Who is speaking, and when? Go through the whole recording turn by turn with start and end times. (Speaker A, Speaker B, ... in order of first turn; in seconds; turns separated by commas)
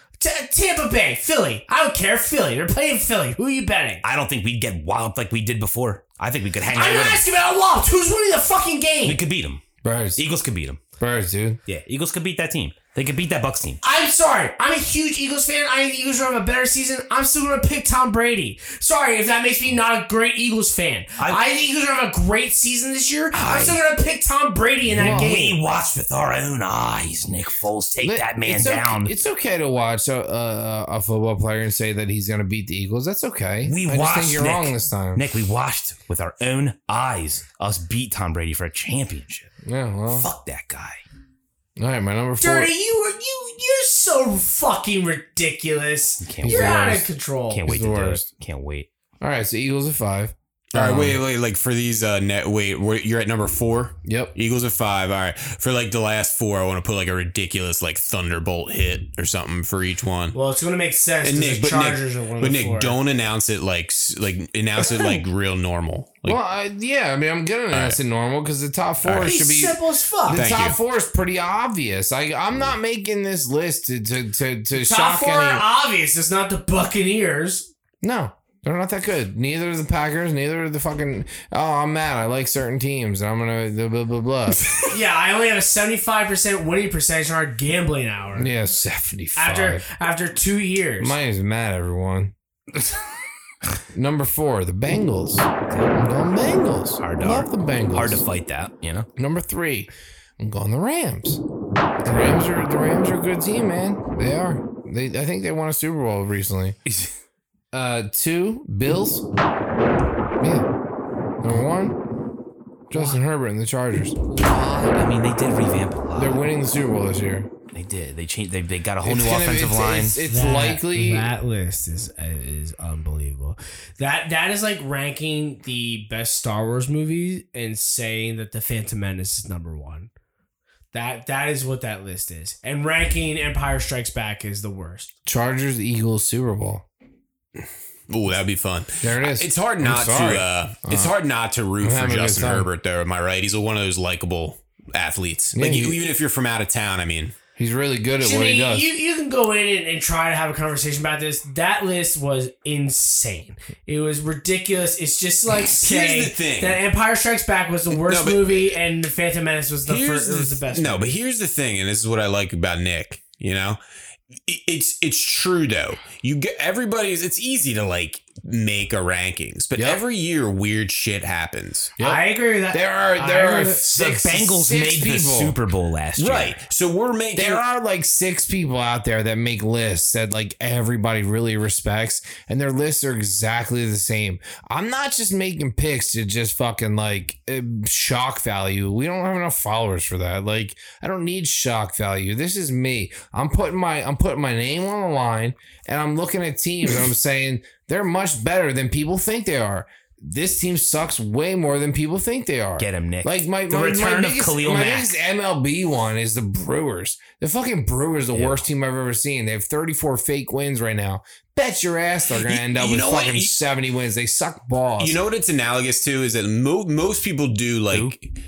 Speaker A: 0.2-4.0, Speaker B: 4.0-7.2, Speaker A: 6.7-9.2, Speaker B: 9.0-9.6, Speaker C: 9.8-10.2, Speaker B: 10.2-10.8, Speaker C: 11.0-11.6, Speaker B: 11.7-13.8, Speaker A: 13.8-25.6, Speaker B: 21.2-21.4, Speaker B: 23.3-23.8, Speaker B: 24.9-29.1, Speaker C: 24.9-25.3, Speaker C: 28.0-35.2, Speaker B: 33.6-39.5, Speaker C: 39.6-40.3, Speaker B: 40.1-41.0, Speaker C: 41.8-42.7, Speaker A: 42.4-47.7, Speaker B: 46.2-46.9, Speaker C: 46.4-47.1, Speaker B: 47.5-48.9, Speaker C: 47.7-48.2, Speaker C: 49.2-51.2, Speaker D: 50.7-60.4, Speaker C: 54.0-54.3, Speaker A: 60.3-63.0, Speaker D: 61.2-66.4, Speaker C: 66.2-75.6, Speaker D: 67.7-68.0, Speaker D: 69.0-69.3, Speaker A: 69.2-70.5, Speaker D: 70.3-70.8, Speaker A: 74.7-77.7, Speaker C: 78.0-84.7, Speaker A: 84.8-88.5, Speaker C: 88.3-89.8, Speaker A: 89.3-91.2, Speaker C: 91.0-92.3, Speaker C: 93.9-98.2, Speaker B: 97.0-99.1, Speaker C: 99.2-101.4, Speaker C: 102.0-106.8, Speaker B: 106.8-107.1, Speaker C: 107.7-109.2, Speaker C: 110.4-110.7, Speaker C: 111.4-112.0, Speaker C: 112.9-114.2, Speaker B: 114.2-116.4, Speaker C: 116.2-117.5, Speaker B: 117.7-120.2, Speaker C: 119.0-121.2, Speaker A: 120.2-130.1, Speaker A: 130.9-135.1, Speaker C: 135.2-136.8, Speaker D: 138.1-147.3, Speaker C: 139.0-141.1, Speaker C: 141.8-142.7, Speaker C: 145.5-146.0, Speaker C: 147.6-148.8, Speaker A: 148.2-161.1, Speaker D: 155.5-156.8, Speaker D: 157.9-158.6, Speaker D: 159.8-163.8, Speaker D: 164.4-171.9, Speaker C: 169.7-170.0, Speaker C: 172.0-175.6, Speaker A: 172.0-173.8, Speaker B: 173.8-176.6, Speaker D: 176.2-177.6, Speaker C: 177.3-215.2, Speaker B: 202.8-205.2, Speaker B: 208.3-208.6, Speaker D: 212.4-213.6, Speaker D: 215.0-218.3